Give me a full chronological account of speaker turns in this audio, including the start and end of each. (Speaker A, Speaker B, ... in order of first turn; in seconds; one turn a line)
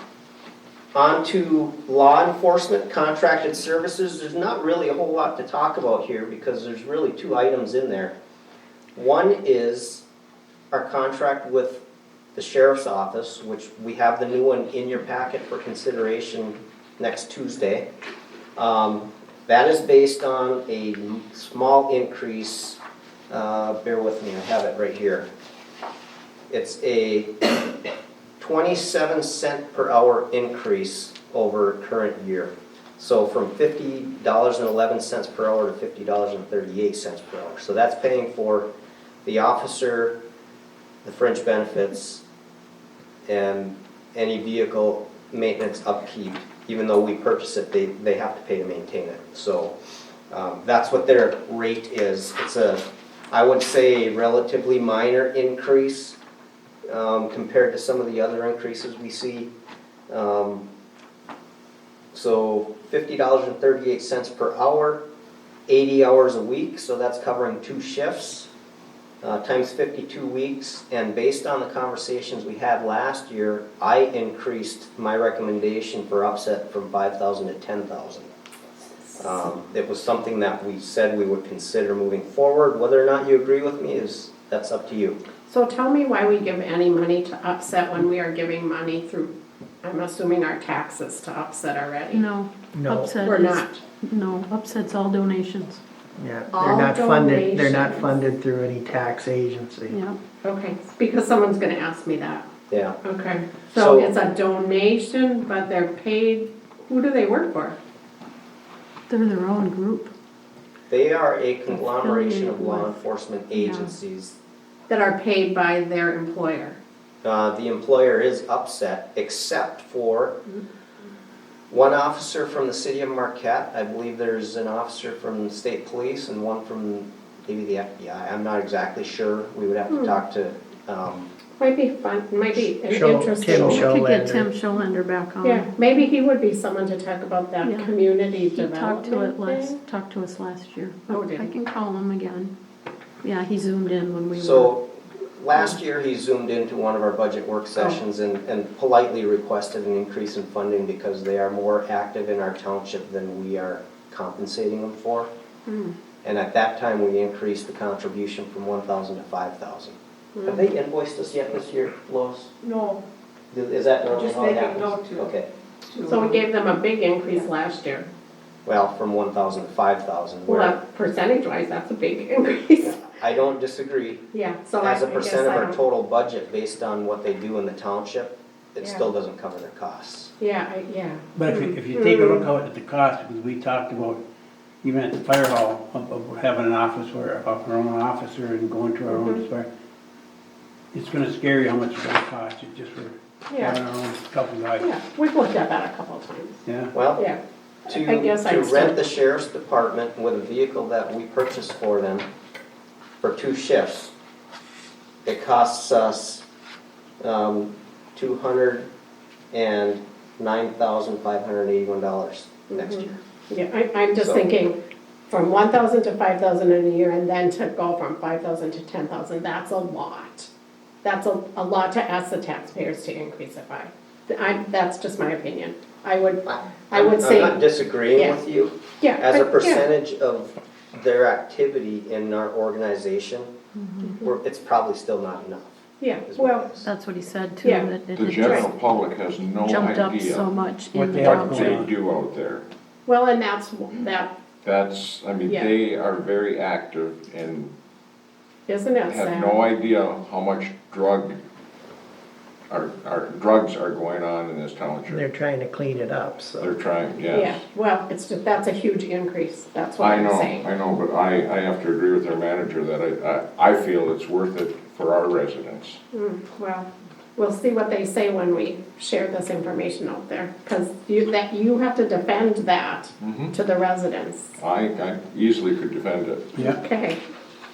Speaker A: 0.9-8.1
Speaker A: 8.9-10.0
Speaker A: 10.7-11.8
Speaker A: 12.3-17.9
Speaker A: 18.6-22.8
Speaker A: 23.3-25.3
Speaker A: 26.5-27.9
Speaker A: 28.4-38.7
Speaker A: 39.2-40.1
Speaker A: 41.0-42.2
Speaker A: 43.3-49.7
Speaker A: 50.3-56.2
Speaker A: 56.9-59.5
Speaker A: 60.1-60.6
Speaker A: 62.1-65.0
Speaker A: 65.7-68.5
Speaker A: 69.2-78.3
Speaker A: 79.2-85.2
Speaker B: 85.5-92.2
Speaker C: 92.1-95.8
Speaker D: 92.7-93.2
Speaker B: 93.2-93.8
Speaker D: 96.2-100.0
Speaker B: 96.5-98.2
Speaker C: 99.9-100.2
Speaker B: 100.4-102.5
Speaker A: 102.7-103.0
Speaker B: 103.0-107.8
Speaker A: 103.7-104.2
Speaker C: 109.1-110.1
Speaker A: 110.9-114.3
Speaker C: 111.7-113.0
Speaker C: 113.5-113.9
Speaker B: 114.9-116.8
Speaker A: 117.2-120.4
Speaker A: 121.7-131.3
Speaker B: 129.9-130.2
Speaker B: 131.6-133.8
Speaker D: 132.8-134.5
Speaker A: 133.5-133.8
Speaker C: 133.7-135.7
Speaker B: 135.4-139.8
Speaker C: 137.6-137.9
Speaker C: 138.5-142.5
Speaker B: 141.1-141.5
Speaker C: 143.2-144.7
Speaker A: 144.3-155.3
Speaker B: 155.7-155.9
Speaker A: 156.2-162.5
Speaker B: 160.3-160.6
Speaker E: 162.6-163.0
Speaker A: 163.5-165.5
Speaker E: 164.1-165.3
Speaker E: 165.9-166.4
Speaker B: 166.0-168.1
Speaker A: 168.7-170.8
Speaker B: 170.5-173.0
Speaker A: 172.8-174.2
Speaker B: 174.3-175.8
Speaker A: 174.8-180.3
Speaker B: 178.8-179.1
Speaker B: 180.4-182.5
Speaker F: 181.3-184.2
Speaker F: 184.8-189.7
Speaker B: 189.1-189.4
Speaker F: 190.9-194.9
Speaker B: 193.5-193.8
Speaker B: 194.8-196.6
Speaker F: 196.6-196.9
Speaker A: 196.9-197.2
Speaker B: 197.1-199.0
Speaker A: 197.9-202.2
Speaker A: 203.2-204.1
Speaker A: 205.2-206.4
Speaker A: 207.2-208.9
Speaker A: 209.5-213.1
Speaker B: 212.7-214.8
Speaker A: 214.2-214.4
Speaker B: 215.3-220.5
Speaker B: 221.0-228.4
Speaker A: 226.4-233.5
Speaker B: 229.0-229.8
Speaker C: 233.8-234.1
Speaker B: 234.0-234.3
Speaker A: 234.2-236.9
Speaker B: 236.0-236.7
Speaker C: 236.8-238.7
Speaker B: 237.6-237.9
Speaker G: 238.1-240.5
Speaker B: 238.4-238.7
Speaker C: 239.6-241.7
Speaker F: 240.9-241.9
Speaker G: 241.1-242.6
Speaker B: 243.1-244.3
Speaker G: 244.6-247.7
Speaker B: 245.5-245.7
Speaker B: 248.7-249.6
Speaker G: 249.1-251.3
Speaker G: 252.7-255.2
Speaker D: 255.1-256.7
Speaker G: 256.6-257.6
Speaker B: 257.3-260.6
Speaker G: 260.0-266.0
Speaker B: 266.1-274.5
Speaker G: 273.2-273.5
Speaker G: 274.6-276.5
Speaker B: 276.6-277.2